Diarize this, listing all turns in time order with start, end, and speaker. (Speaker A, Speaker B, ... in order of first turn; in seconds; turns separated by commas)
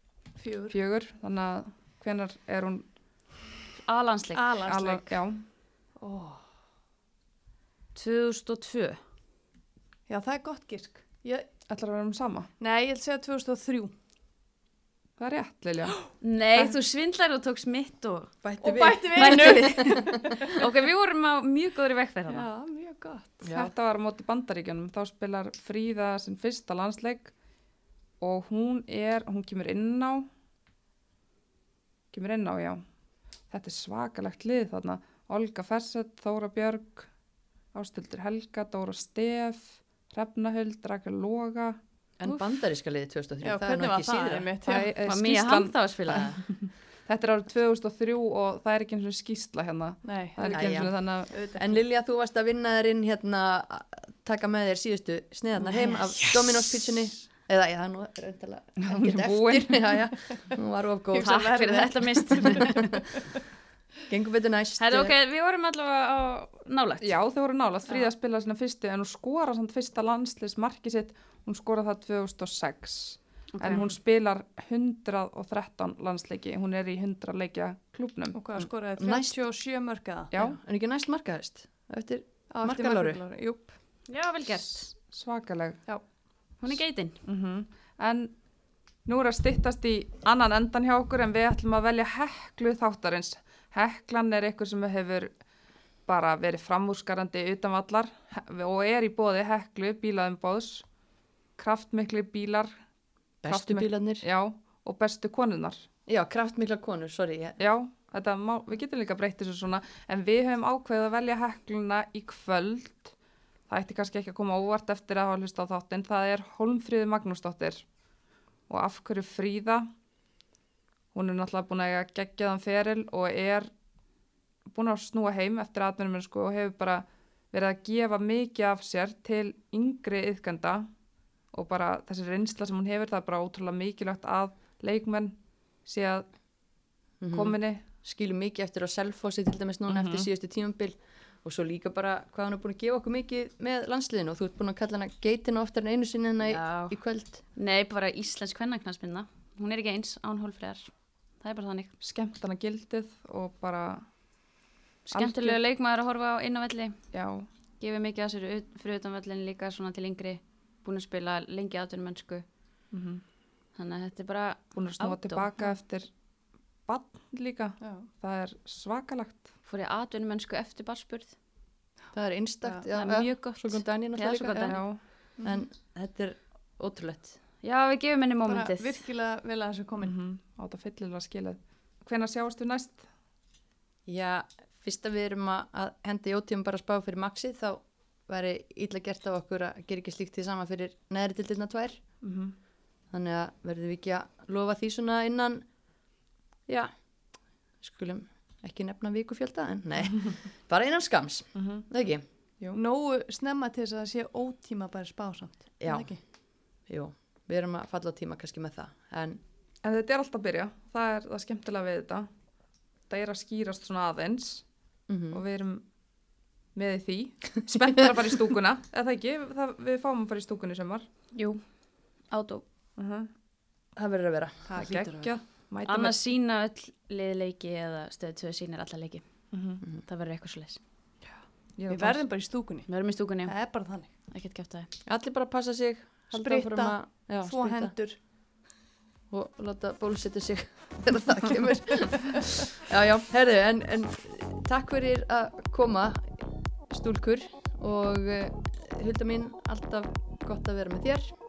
Speaker A: 0.4-0.8, Speaker B: 0.7-2.9, Speaker C: 3.9-4.9, Speaker A: 4.3-5.1, Speaker B: 4.7-5.4, Speaker A: 6.0-6.5, Speaker C: 8.0-9.0, Speaker A: 10.1-11.5, Speaker B: 11.7-12.5, Speaker A: 12.6-13.9, Speaker B: 15.2-16.0, Speaker C: 16.2-18.4, Speaker D: 18.4-20.4, Speaker A: 18.6-20.5, Speaker C: 19.1-22.5, Speaker A: 22.3-23.4, Speaker D: 23.4-23.7, Speaker B: 23.4-27.3, Speaker B: 28.2-30.3, Speaker B: 32.1-32.8, Speaker B: 33.5-37.1, Speaker B: 37.7-41.8, Speaker D: 42.2-44.5, Speaker A: 43.4-44.9, Speaker B: 44.6-51.4, Speaker C: 45.0-46.5, Speaker A: 50.0-51.8, Speaker D: 50.5-61.7, Speaker B: 58.8-59.9, Speaker A: 61.1-63.1, Speaker C: 61.2-62.7, Speaker D: 62.5-62.9, Speaker D: 64.1-65.1, Speaker C: 64.8-67.1, Speaker B: 67.0-78.4, Speaker C: 73.5-73.9, Speaker A: 78.3-80.3, Speaker D: 78.6-79.4, Speaker B: 80.3-80.6, Speaker D: 80.4-83.2, Speaker A: 82.5-83.8, Speaker C: 84.1-84.9, Speaker B: 84.9-85.8, Speaker C: 86.6-87.2, Speaker B: 87.2-88.3, Speaker B: 89.0-95.3, Speaker B: 96.0-100.9, Speaker B: 101.6-102.8, Speaker D: 103.4-104.2, Speaker B: 103.4-105.8, Speaker D: 106.1-107.6, Speaker B: 107.6-113.2, Speaker B: 113.7-117.9, Speaker B: 118.7-119.9, Speaker B: 121.1-123.7, Speaker B: 124.7-130.9, Speaker B: 131.5-136.3, Speaker D: 137.2-147.4, Speaker B: 137.3-137.8, Speaker B: 139.9-140.3, Speaker C: 146.4-151.9, Speaker B: 152.0-154.1, Speaker C: 155.1-157.0, Speaker B: 155.1-155.6, Speaker B: 157.1-157.5, Speaker C: 157.8-162.4, Speaker B: 162.9-163.2, Speaker C: 163.8-165.5, Speaker B: 164.8-166.1, Speaker B: 166.8-169.5, Speaker A: 167.8-168.1, Speaker C: 169.7-171.4, Speaker D: 172.1-177.4, Speaker C: 172.9-174.8, Speaker B: 174.7-175.0, Speaker A: 175.4-175.6, Speaker C: 177.6-179.0, Speaker A: 178.5-180.1, Speaker B: 180.0-183.1, Speaker D: 184.1-192.0, Speaker B: 192.2-192.5, Speaker D: 193.1-195.7, Speaker D: 196.7-197.2, Speaker D: 197.8-202.2, Speaker B: 201.6-201.8, Speaker A: 202.7-206.2, Speaker D: 205.8-209.4, Speaker B: 209.8-212.3, Speaker B: 213.1-214.7, Speaker D: 215.1-215.4, Speaker B: 215.3-215.8, Speaker B: 216.8-221.1, Speaker D: 217.7-218.1, Speaker C: 221.3-221.6, Speaker C: 222.3-222.6, Speaker B: 223.0-223.3, Speaker D: 224.0-225.3, Speaker B: 224.7-226.2, Speaker C: 225.9-229.5, Speaker B: 229.5-229.8, Speaker C: 230.0-230.8, Speaker B: 231.8-232.2, Speaker A: 231.9-234.1, Speaker C: 232.9-233.6, Speaker C: 234.1-234.9, Speaker D: 235.1-237.9, Speaker A: 236.3-238.2, Speaker D: 239.3-251.4, Speaker A: 242.1-242.4